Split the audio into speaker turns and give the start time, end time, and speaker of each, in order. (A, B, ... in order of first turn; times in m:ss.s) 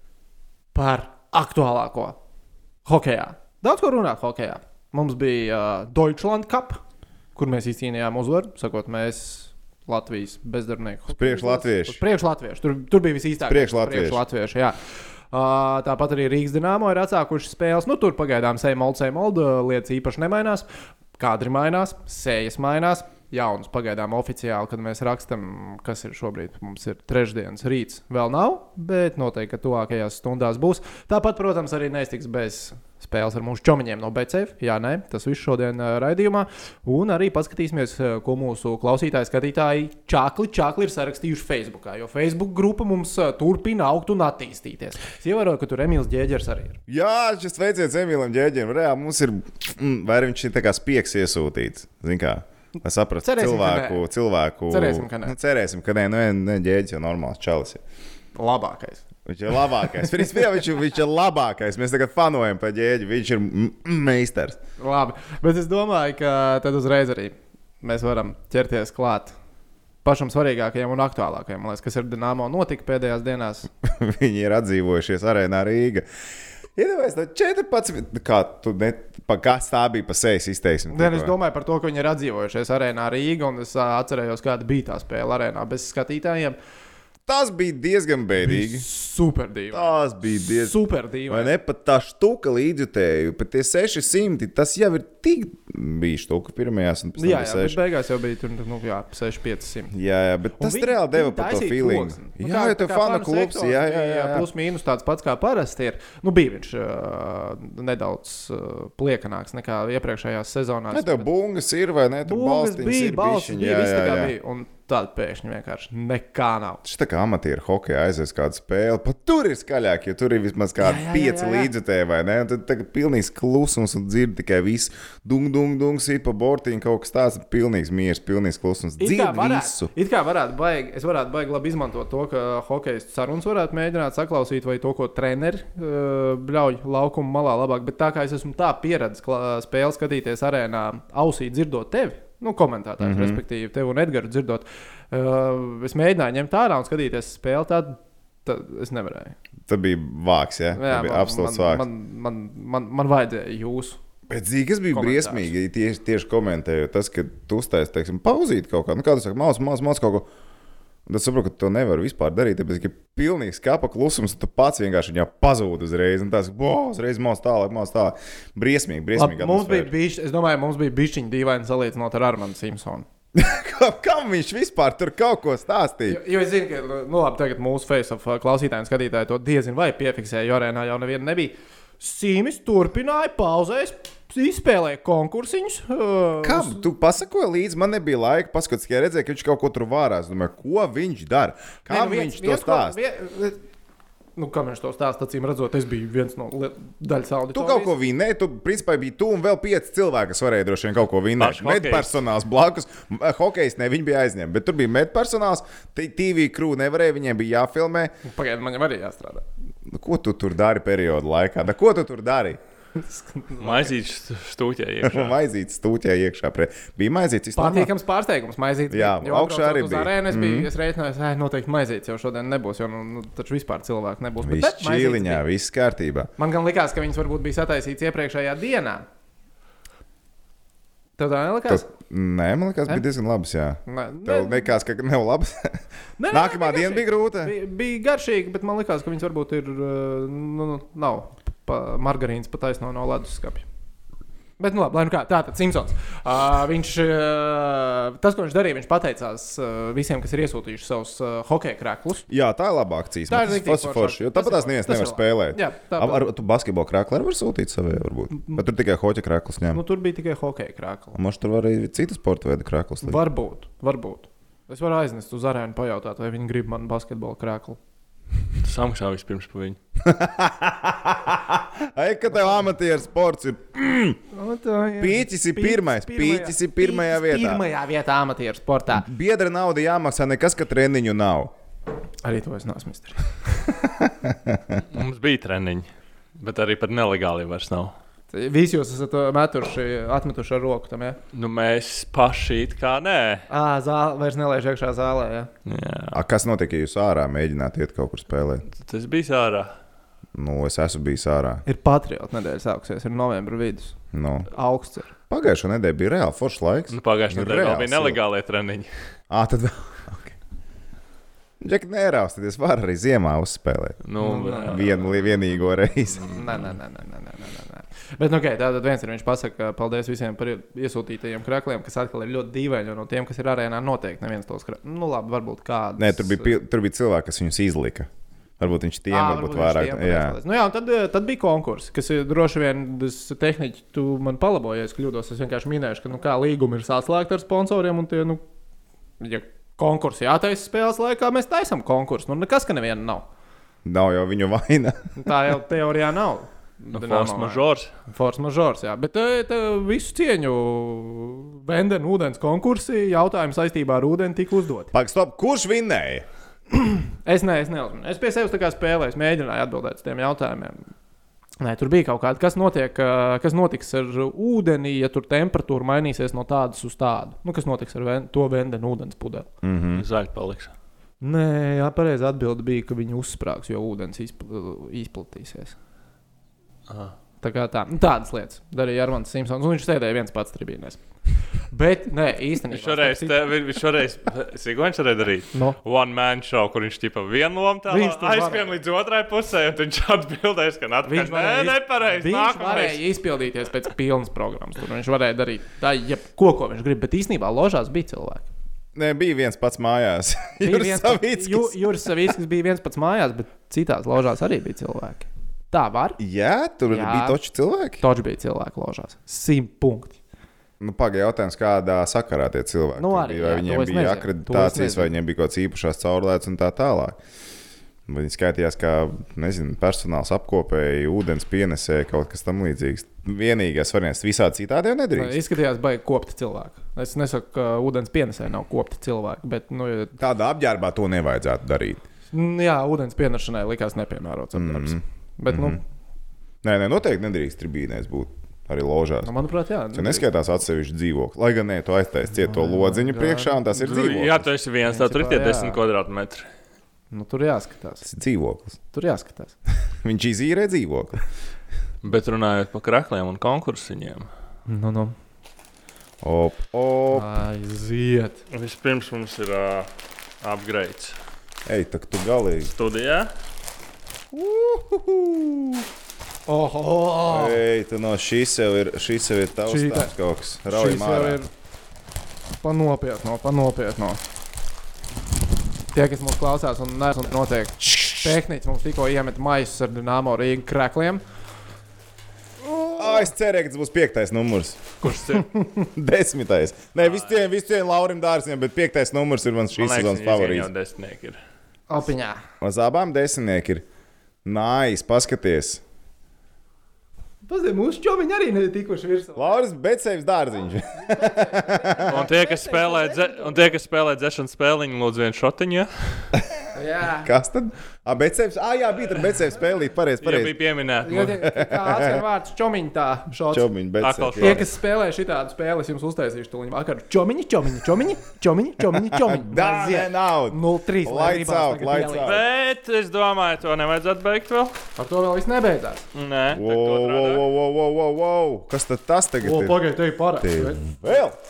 0:00.7-0:02.2 A
0:02.8-0:06.8 A
0:07.4-0:14.8 A
0:11.2-0:12.0 B
0:13.5-0:14.2 B
0:15.3-0:20.7 A
0:21.2-0:46.8 A
0:46.9-0:57.8 B
0:53.2-0:54.1 A
0:54.7-0:55.4 A
0:58.4-1:00.3 A
0:59.3-1:04.6 B
1:04.8-1:09.4 A
1:10.0-1:13.7 A
1:13.8-1:16.1 B
1:16.8-1:21.4 B
1:20.9-1:26.6 A
1:27.3-1:28.9 B
1:28.4-1:30.0 A
1:29.7-1:30.8 B
1:30.6-1:31.5 A
1:31.3-1:37.8 B
1:37.2-1:39.9 A
1:39.9-1:44.5 B
1:40.6-1:51.3 A
1:50.9-1:54.3 B
1:52.2-1:56.8 A
1:56.8-2:09.9 B
2:00.8-2:01.7 A
2:09.0-2:29.4 A
2:23.0-2:23.4 B
2:29.7-2:31.8 B
2:30.7-2:34.0 A
2:34.3-2:40.3 B
2:34.9-2:35.5 A
2:41.1-2:49.9 B
2:49.2-2:53.0 A
2:53.4-2:56.2 B
2:56.1-3:06.9 A
3:06.4-3:13.0 B
3:11.9-3:13.6 A
3:14.4-3:18.0 A
3:17.5-3:28.1 B
3:21.4-3:22.1 C
3:28.2-3:29.4 A
3:29.9-3:32.6 B
3:33.0-3:33.9 A
3:33.6-3:35.4 C
3:35.0-3:37.9 B
3:37.6-3:45.4 A
3:38.9-3:40.7 B
3:44.4-3:46.3 B
3:46.4-3:49.0 A
3:51.2-3:51.9 A
3:51.7-3:57.5 B
3:53.9-3:54.7 A
3:56.2-4:03.6 A
4:04.6-4:12.3 A
4:12.3-4:19.8 B
4:13.3-4:16.3 A
4:18.4-4:18.6 A
4:19.7-4:21.2 A
4:21.2-4:23.2 B
4:23.0-4:27.8 A
4:28.6-4:29.8 C
4:30.0-4:34.2 B
4:34.3-4:39.1 A
4:35.0-4:37.6 B
4:38.9-4:41.5 B
4:42.2-4:43.3 A
4:43.8-4:44.8 B
4:44.9-4:47.9 C
4:48.3-4:51.2 A
4:51.3-4:53.5 C
4:53.5-4:55.5 A
4:55.7-4:56.2 C
4:56.1-4:58.7 B
4:58.8-4:59.7 C
5:00.4-5:01.6 B
5:01.6-5:03.9 A
5:04.1-5:04.5 B
5:04.5-5:05.1 A
5:05.3-5:08.2 B
5:06.9-5:08.9 C
5:09.3-5:10.4 B
5:11.6-5:14.0 B
5:14.0-5:15.0 C
5:14.2-5:14.8 A
5:14.7-5:16.3 B
5:16.3-5:26.6 A
5:26.0-5:28.1 B
5:28.6-5:30.4 B
5:29.1-5:38.4 A
5:39.2-5:43.2 A
5:43.8-5:45.0 B
5:45.2-5:54.9 A
5:46.9-5:47.9 C
5:54.9-5:56.2 B
5:56.7-6:00.8 A
6:01.6-6:09.5 A
6:09.6-6:10.0 B
6:09.9-6:10.7 C
6:11.2-6:15.8 A
6:16.9-6:17.1 C
6:17.4-6:21.0 A
6:21.6-6:23.4 A
6:22.7-6:33.0 C
6:27.9-6:28.7 A
6:31.1-6:38.5 A
6:39.0-6:42.3 B
6:40.6-6:46.2 A
6:46.2-6:48.0 B
6:46.9-6:47.4 A
6:48.0-6:50.2 A
6:50.8-6:57.2 B
6:53.0-6:55.1 A
6:58.1-7:05.4 B
7:05.1-7:10.2 A
7:10.2-7:12.0 B
7:12.3-7:15.8 A
7:14.5-7:15.8 B
7:16.6-7:19.3 B
7:19.2-7:20.3 A
7:19.9-7:24.5 B
7:22.4-7:23.6 A
7:23.7-7:26.5 C
7:24.8-7:25.8 A
7:27.1-7:28.0 A
7:28.0-7:28.8 B
7:28.9-7:29.6 A
7:30.0-7:31.2 B
7:32.0-7:34.3 C
7:34.7-7:35.2 A
7:36.2-7:37.3 B
7:37.1-7:38.4 A
7:38.5-7:39.9 C
7:40.4-7:41.2 C
7:41.7-7:42.7 B
7:42.7-7:43.3 C
7:44.3-7:45.8 B
7:46.5-7:47.6 A
7:47.2-7:51.4 B
7:49.7-7:50.1 A
7:50.7-7:51.5 A
7:52.6-7:54.2 A
7:55.9-8:01.2 A
7:57.8-7:58.4 B
8:02.6-8:03.3 A
8:03.0-8:04.9 B
8:05.0-8:05.5 C
8:05.3-8:05.8 A
8:06.0-8:10.7 B
8:07.0-8:07.4 C
8:09.8-8:11.4 C
8:11.9-8:12.4 A
8:12.6-8:13.8 B
8:14.4-8:15.8 B
8:17.4-8:19.6 A
8:19.4-8:22.3 B
8:21.1-8:23.7 A
8:22.1-8:26.3 C
8:26.3-8:26.6 B
8:26.7-8:27.3 A
8:27.2-8:30.6 B
8:30.2-8:31.4 C
8:31.0-8:33.7 A
8:31.4-8:32.2 B
8:33.5-8:34.7 B
8:34.0-8:34.6 C
8:34.4-8:42.4 A
8:38.9-8:42.4 B
8:42.2-8:44.8 C
8:45.0-8:46.1 A
8:46.1-8:47.4 C
8:46.5-8:49.8 B
8:49.4-8:50.9 A
8:50.4-8:51.4 B